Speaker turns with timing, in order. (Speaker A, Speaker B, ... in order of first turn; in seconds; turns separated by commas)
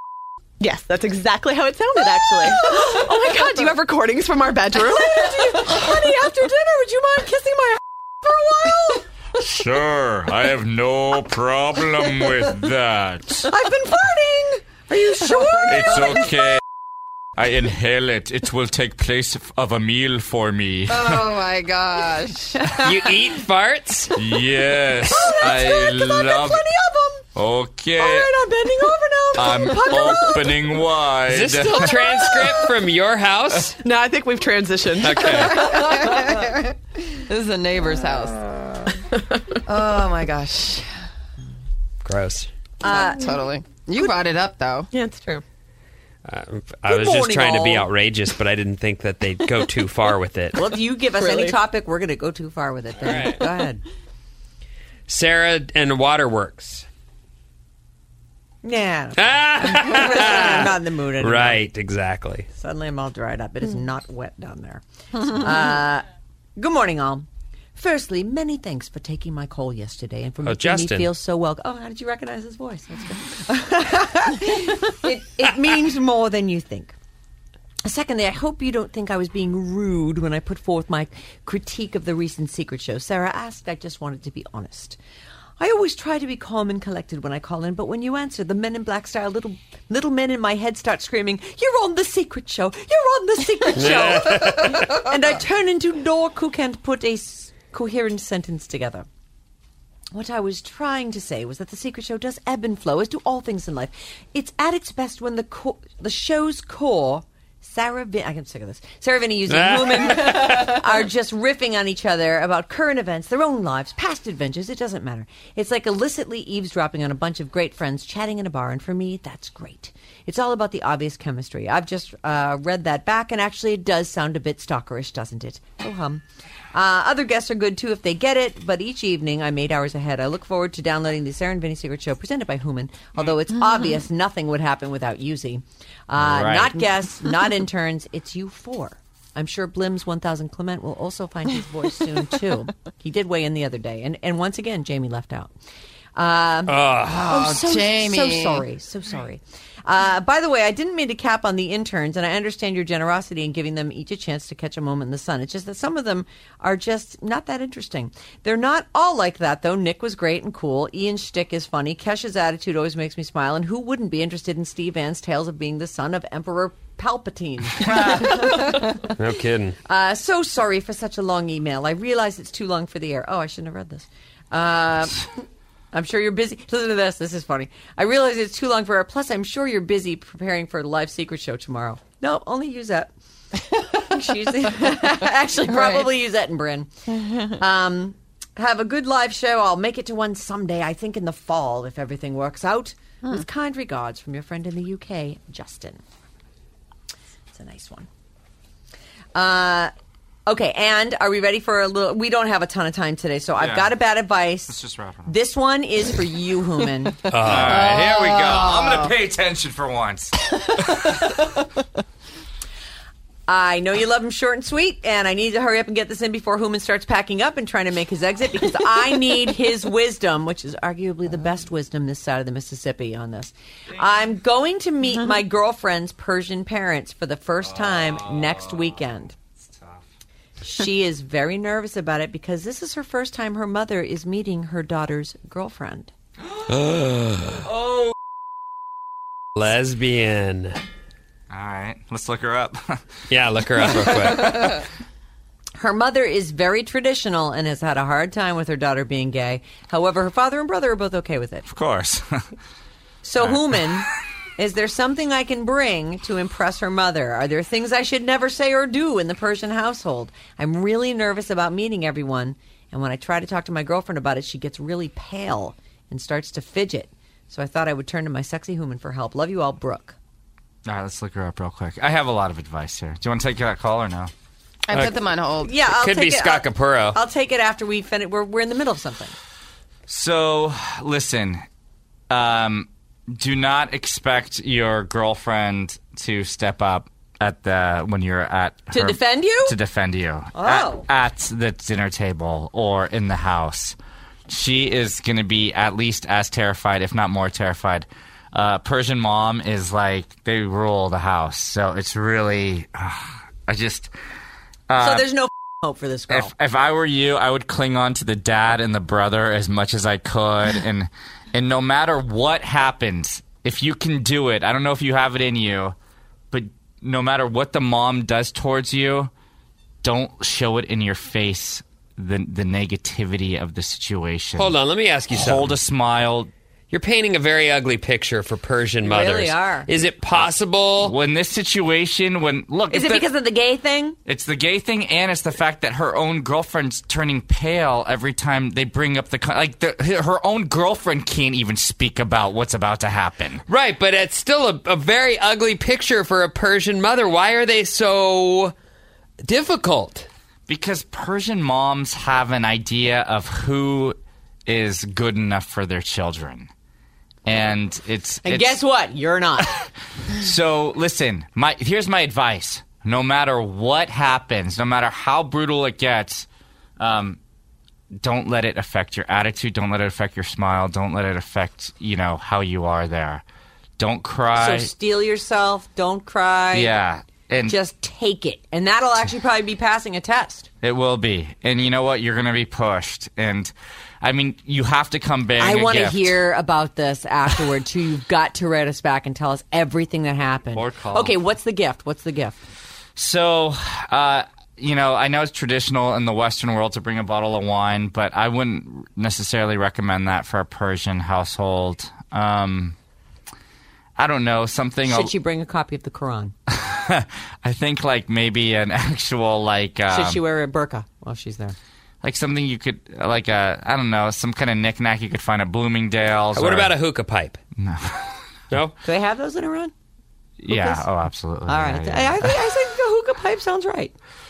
Speaker A: 0.6-6.3, Speaker B: 2.0-3.0, Speaker B: 4.9-9.0, Speaker C: 9.4-13.5, Speaker B: 13.5-16.2, Speaker C: 15.7-16.6, Speaker C: 17.4-21.3, Speaker D: 20.9-22.8, Speaker B: 22.6-22.9, Speaker E: 22.8-24.2, Speaker C: 24.1-26.7, Speaker B: 25.1-27.2, Speaker C: 27.3-28.3, Speaker B: 28.0-30.5, Speaker C: 29.3-31.9, Speaker E: 31.3-33.8, Speaker A: 33.8-35.5, Speaker E: 35.0-35.9, Speaker D: 35.2-38.8, Speaker A: 39.1-39.4, Speaker D: 39.6-40.9, Speaker E: 42.0-42.5, Speaker B: 42.8-43.2, Speaker D: 42.9-44.9, Speaker A: 44.9-45.4, Speaker E: 46.2-50.6, Speaker B: 46.8-47.9, Speaker B: 50.5-53.8, Speaker A: 51.0-51.6, Speaker E: 53.0-53.4, Speaker E: 55.1-56.9, Speaker B: 58.6-61.6, Speaker E: 59.2-62.5, Speaker B: 62.5-66.0, Speaker B: 66.6-76.9, Speaker E: 70.4-71.1, Speaker B: 77.8-85.0, Speaker B: 85.6-99.0, Speaker E: 93.7-95.1, Speaker B: 100.1-126.2, Speaker E: 109.5-110.9, Speaker B: 126.7-145.5, Speaker C: 136.2-136.8, Speaker B: 146.1-169.1, Speaker E: 146.7-147.6, Speaker D: 147.1-148.6, Speaker E: 168.6-169.8, Speaker B: 169.8-175.3, Speaker B: 175.9-183.1, Speaker B: 183.9-186.9, Speaker D: 185.7-186.1, Speaker B: 187.5-196.0, Speaker B: 197.5-198.1, Speaker B: 199.3-199.9, Speaker B: 200.4-204.7, Speaker C: 203.6-204.0, Speaker C: 204.7-205.3, Speaker B: 205.2-207.2, Speaker E: 207.3-208.0, Speaker C: 207.4-211.1, Speaker D: 207.8-209.1, Speaker B: 213.5-229.3, Speaker C: 227.6-229.0, Speaker C: 229.6-230.1, Speaker B: 230.6-236.1, Speaker E: 236.7-237.7, Speaker C: 237.6-238.1, Speaker E: 239.6-240.8, Speaker C: 241.5-243.1, Speaker E: 243.3-244.8, Speaker C: 244.1-244.7, Speaker B: 245.8-251.7, Speaker C: 251.7-252.5, Speaker B: 253.2-254.1, Speaker B: 254.6-270.1, Speaker C: 270.8-274.3, Speaker D: 274.9-275.7, Speaker E: 274.9-275.2, Speaker B: 275.6-279.3, Speaker E: 275.9-277.2, Speaker C: 280.1-281.6, Speaker C: 282.3-293.9, Speaker B: 288.9-289.8, Speaker B: 290.5-291.1, Speaker C: 294.5-304.1, Speaker C: 304.9-305.2, Speaker B: 305.0-306.5, Speaker C: 306.3-315.9, Speaker C: 316.5-319.3, Speaker C: 320.0-324.7, Speaker E: 324.6-325.8, Speaker C: 325.3-326.5, Speaker E: 326.9-331.1, Speaker B: 329.0-329.9, Speaker C: 330.3-333.3, Speaker B: 332.9-334.2, Speaker C: 334.2-343.6, Speaker E: 343.7-348.7, Speaker E: 349.4-350.3, Speaker C: 350.7-356.7, Speaker C: 357.4-358.8, Speaker B: 358.4-359.7, Speaker C: 360.3-366.4, Speaker C: 367.0-367.4, Speaker C: 368.2-373.4, Speaker C: 374.0-374.9, Speaker B: 374.5-376.9, Speaker C: 376.7-377.8, Speaker B: 377.7-380.7, Speaker C: 380.8-386.4, Speaker B: 385.6-392.6, Speaker C: 390.7-391.3, Speaker C: 393.1-402.9, Speaker C: 404.2-405.3, Speaker B: 405.1-406.5, Speaker C: 406.7-410.4, Speaker B: 410.1-411.8, Speaker C: 412.2-416.9, Speaker E: 416.5-417.6, Speaker C: 417.8-418.3, Speaker E: 418.7-418.9, Speaker B: 419.0-419.9, Speaker C: 420.6-422.6, Speaker B: 420.7-421.1, Speaker B: 421.6-424.1